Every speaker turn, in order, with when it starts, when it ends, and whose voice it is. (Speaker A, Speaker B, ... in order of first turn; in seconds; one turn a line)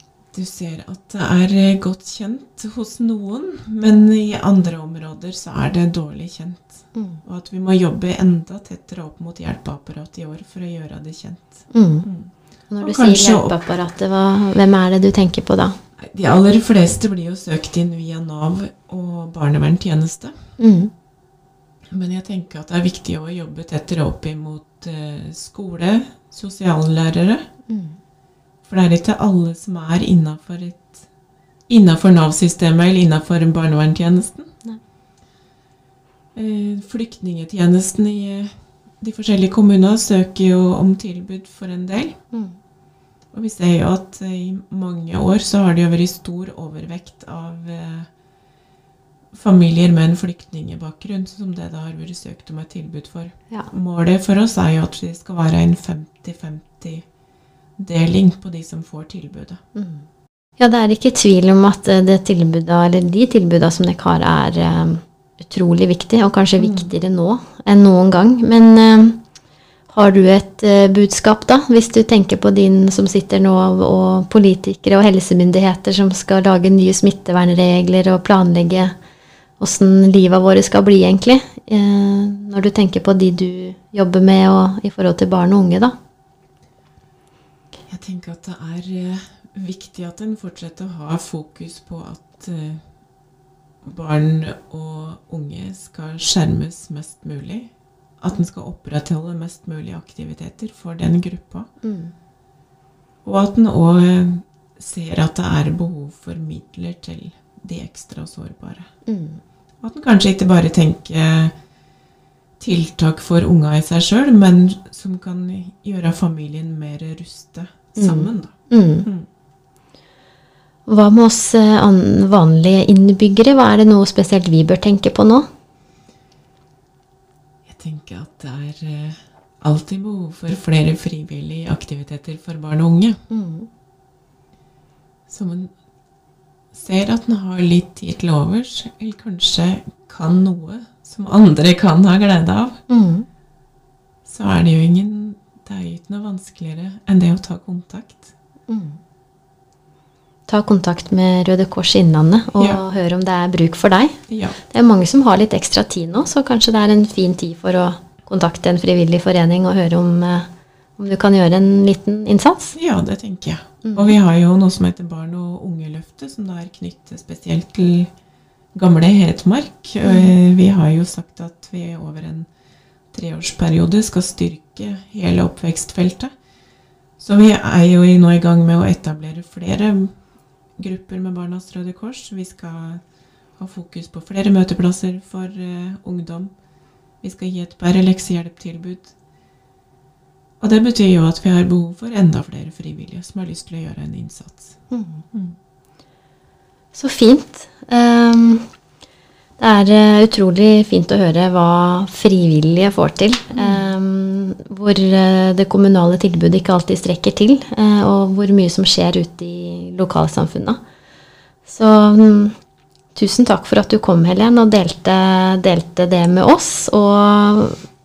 Speaker A: 0.3-13.6
Speaker B: 7.0-7.2
Speaker B: 11.7-12.1
Speaker B: 12.7-15.8
Speaker A: 16.0-20.5
Speaker B: 20.6-20.9
Speaker A: 21.9-27.5
Speaker B: 27.7-28.0
Speaker A: 28.6-31.1
Speaker A: 31.7-34.5
Speaker A: 36.4-42.2
Speaker B: 42.3-42.6
Speaker A: 43.3-48.1
Speaker A: 49.3-57.0
Speaker A: 57.8-59.6
Speaker B: 59.8-60.1
Speaker B: 60.6-69.2
Speaker A: 66.6-66.9
Speaker B: 69.9-78.9
Speaker B: 79.6-86.0
Speaker A: 87.9-92.8
Speaker A: 93.8-101.7
Speaker B: 101.8-102.1
Speaker A: 103.2-108.9
Speaker B: 109.0-109.4
Speaker A: 109.8-111.5
Speaker A: 112.6-118.5
Speaker B: 118.0-119.1
Speaker B: 120.9-125.5
Speaker A: 127.7-133.2
Speaker B: 133.3-133.7
Speaker A: 135.3-135.7
Speaker A: 136.7-142.8
Speaker B: 142.9-143.3
Speaker A: 144.2-148.3
Speaker B: 148.7-149.0
Speaker B: 150.5-154.2
Speaker A: 154.3-154.6
Speaker B: 154.7-162.8
Speaker A: 162.8-168.1
Speaker B: 163.8-164.2
Speaker A: 168.7-172.5
Speaker B: 170.0-170.3
Speaker A: 173.1-176.3
Speaker A: 177.2-180.1
Speaker A: 180.8-183.0
Speaker A: 183.6-186.5
Speaker A: 187.2-189.1
Speaker A: 190.6-194.8
Speaker B: 194.9-195.3
Speaker B: 196.9-198.7
Speaker B: 199.6-210.8
Speaker A: 203.5-203.8
Speaker B: 211.7-212.6
Speaker B: 213.2-217.8